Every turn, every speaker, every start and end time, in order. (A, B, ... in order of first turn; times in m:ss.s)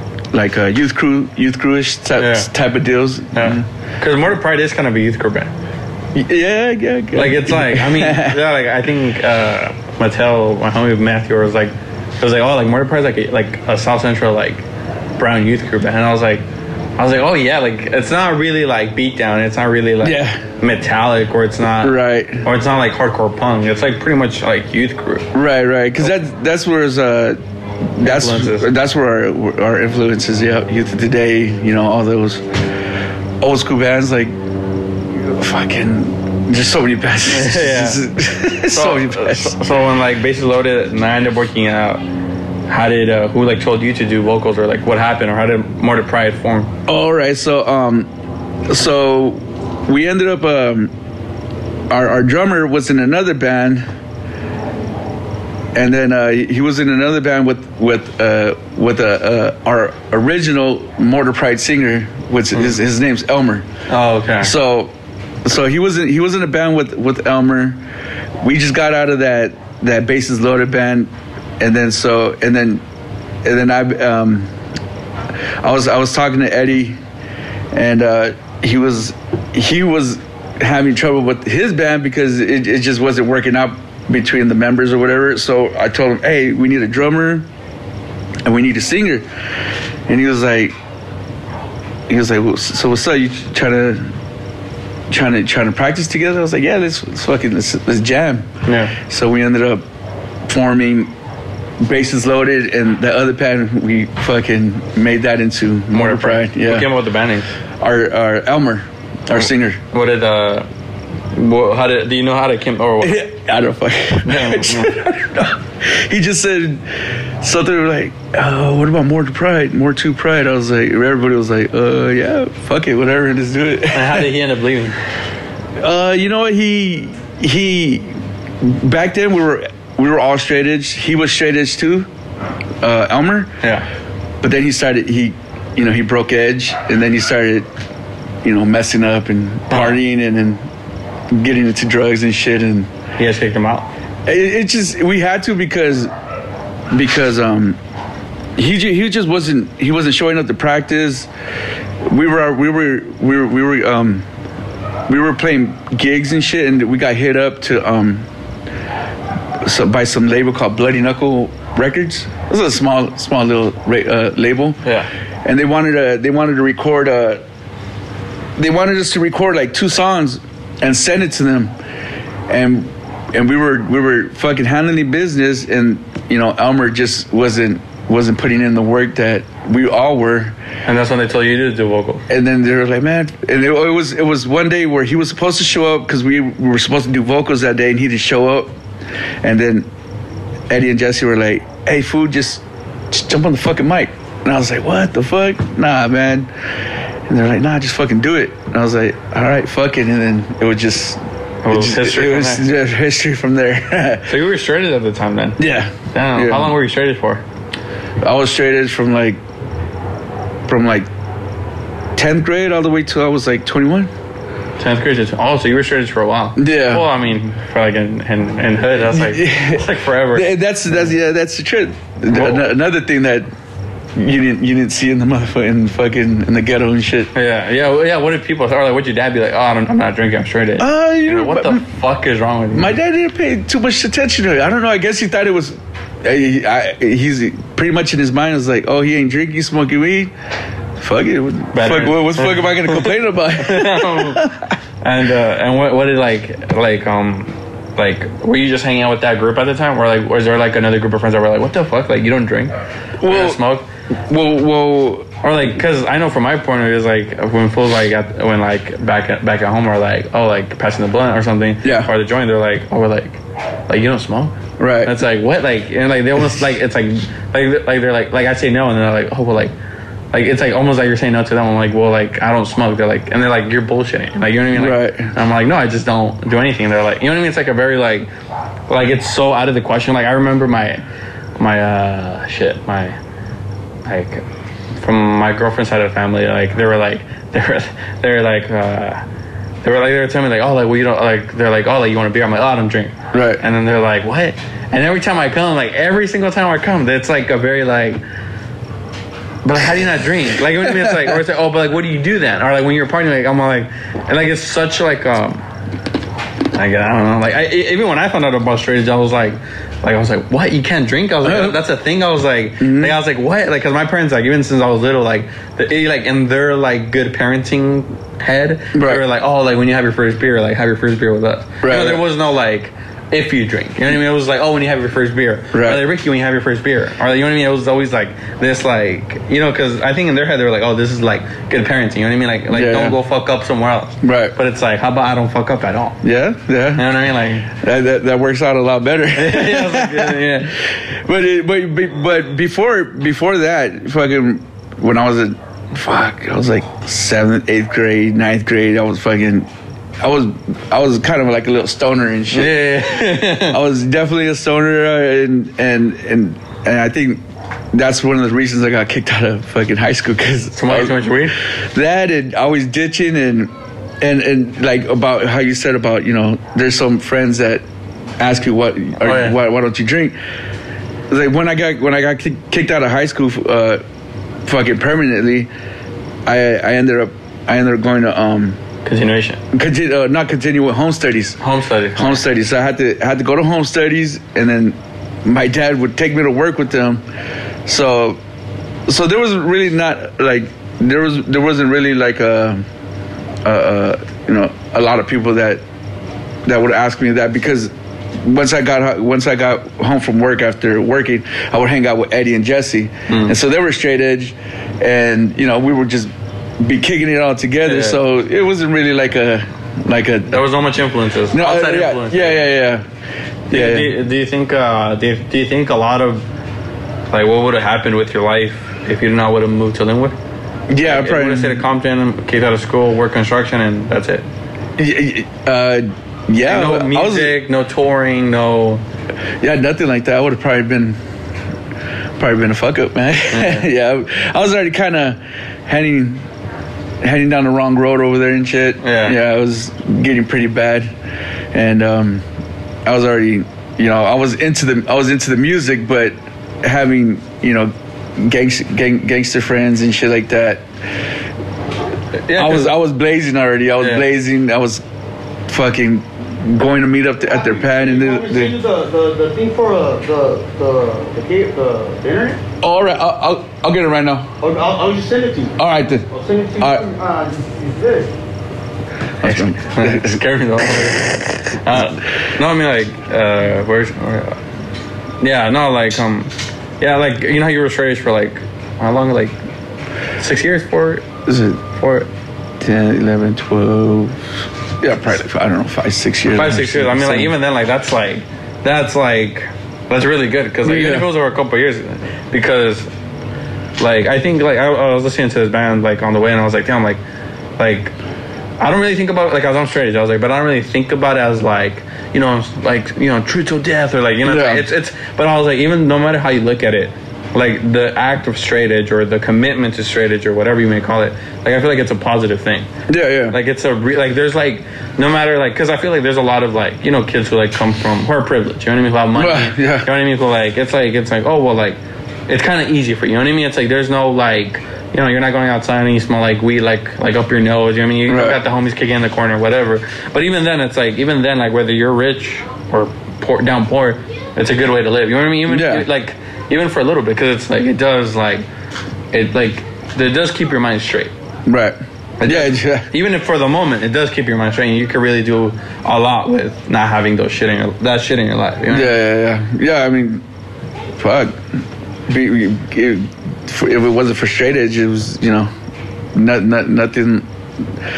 0:00.3-0:03.7 A
0:02.2-0:02.5 B
0:03.3-0:05.5 B
0:06.1-0:08.4 A
0:07.1-0:14.6 B
0:15.2-0:16.4 B
0:17.0-0:25.3 B
0:20.0-0:20.4 A
0:21.8-0:22.4 A
0:25.3-0:32.5 A
0:28.0-0:28.7 B
0:33.4-0:34.3 A
0:35.1-0:39.6 A
0:37.2-0:38.1 B
0:38.7-0:42.0 B
0:42.7-0:46.7 B
0:46.9-0:48.1 A
0:48.7-0:50.9 A
0:51.9-0:53.8 A
0:55.7-1:03.7 A
1:03.9-1:04.5 B
1:04.4-1:07.8 A
1:08.4-1:12.8 A
1:13.4-1:14.5 A
1:15.6-1:17.0 A
1:17.7-1:27.5 A
1:28.4-1:29.3 A
1:30.1-1:30.7 A
1:32.1-1:34.1 A
1:35.1-1:39.8 A
1:38.6-1:39.0 B
1:40.5-1:41.1 A
1:41.8-1:46.9 A
1:45.9-1:47.5 B
1:47.8-1:49.8 A
1:49.3-1:50.7 B
1:51.3-1:53.2 B
1:53.0-2:04.3 A
1:54.2-1:54.9 B
2:03.9-2:05.0 B
2:05.8-2:12.1 A
2:12.8-2:13.5 A
2:13.6-2:13.9 B
2:14.4-2:17.7 A
2:18.4-2:20.6 A
2:19.7-2:19.9 B
2:21.3-2:22.9 A
2:23.2-2:23.9 B
2:24.2-2:26.1 A
2:26.9-2:27.8 A
2:28.6-2:31.3 A
2:32.0-2:34.3 A
2:35.1-2:38.3 A
2:39.6-2:44.8 A
2:45.4-2:47.4 A
2:48.6-2:51.7 A
2:52.5-3:00.6 A
3:00.8-3:02.2 B
3:02.3-3:08.7 A
3:09.4-3:09.9 A
3:10.7-3:16.8 A
3:17.3-3:24.3 A
3:21.6-3:22.6 B
3:24.3-3:25.6 B
3:25.6-3:26.7 A
3:26.1-3:27.4 B
3:28.2-3:29.4 A
3:30.7-3:31.1 A
3:32.2-3:34.1 A
3:34.8-3:40.5 B
3:36.6-3:37.1 A
3:39.0-3:43.5 A
3:42.3-3:42.7 B
3:44.1-3:47.3 A
3:47.3-3:53.0 B
3:50.8-3:51.8 A
3:52.7-4:00.3 A
4:01.0-4:04.7 A
4:01.7-4:13.9 B
4:13.2-4:13.6 A
4:14.3-4:15.3 A
4:15.4-4:29.7 B
4:21.8-4:22.1 A
4:24.8-4:25.2 A
4:30.3-4:38.3 B
4:34.7-4:35.3 A
4:38.9-4:41.0 B
4:41.6-4:43.2 B
4:44.0-4:44.4 B
4:45.0-4:49.2 B
4:49.8-4:58.2 B
4:53.3-4:53.6 A
4:59.6-5:05.6 B
5:00.8-5:01.4 A
5:06.7-5:36.2 B
5:11.4-5:11.8 A
5:12.8-5:13.2 A
5:18.9-5:19.2 A
5:21.8-5:22.2 A
5:25.7-5:26.0 A
5:32.7-5:33.2 A
5:34.2-5:34.6 A
5:36.2-5:37.1 A
5:36.9-5:37.7 B
5:37.7-5:49.7 A
5:39.3-5:40.7 B
5:50.2-6:07.8 A
5:52.5-5:53.8 B
6:00.7-6:01.6 B
6:08.4-6:10.4 A
6:09.2-6:09.6 B
6:11.3-6:14.0 A
6:14.6-6:15.7 A
6:16.4-6:18.8 A
6:19.0-6:19.6 B
6:19.7-6:21.6 A
6:21.6-6:22.4 B
6:22.1-6:27.2 A
6:27.8-6:28.4 A
6:29.1-6:32.8 A
6:33.6-6:35.8 A
6:36.6-6:50.6 A
6:43.3-6:43.6 B
6:47.8-6:48.2 B
6:50.5-6:52.7 B
6:51.5-6:53.0 A
6:53.7-6:54.1 A
6:53.7-6:56.5 B
6:57.3-7:00.3 B
7:00.9-7:01.8 A
7:01.0-7:04.4 B
7:05.0-7:07.6 A
7:06.6-7:09.0 B
7:09.6-7:11.2 A
7:12.4-7:16.4 A
7:13.5-7:13.8 B
7:17.2-7:21.1 A
7:19.0-7:19.4 B
7:21.7-7:22.4 A
7:23.0-7:30.9 A
7:32.4-7:33.0 B
7:32.5-7:35.0 A
7:34.0-7:34.2 B
7:35.7-7:38.7 A
7:37.5-7:42.6 C
7:42.8-7:44.5 A
7:44.6-7:45.8 C
7:45.8-7:46.2 A
7:46.3-7:48.3 C
7:46.8-7:47.1 A
7:49.4-7:51.7 A
7:49.4-7:54.6 B
7:55.4-7:59.6 B
8:00.4-8:01.3 B
8:01.4-8:01.8 A
8:01.9-8:02.3 B
8:02.8-8:04.4 A
8:05.0-8:07.5 A
8:06.5-8:13.1 B
8:10.8-8:11.3 A
8:14.0-8:17.2 B
8:17.8-8:18.1 B
8:18.8-8:32.9 B
8:24.4-8:24.8 A
8:33.1-8:33.6 A
8:33.5-8:58.7 B
8:39.3-8:40.1 A
8:48.3-8:48.6 A
8:55.7-8:56.0 A
8:59.3-9:01.3 B
9:01.6-9:03.1 A
9:02.4-9:09.2 B
9:08.8-9:10.4 A
9:11.2-9:11.6 A
9:12.3-9:15.7 A
9:16.3-9:17.5 A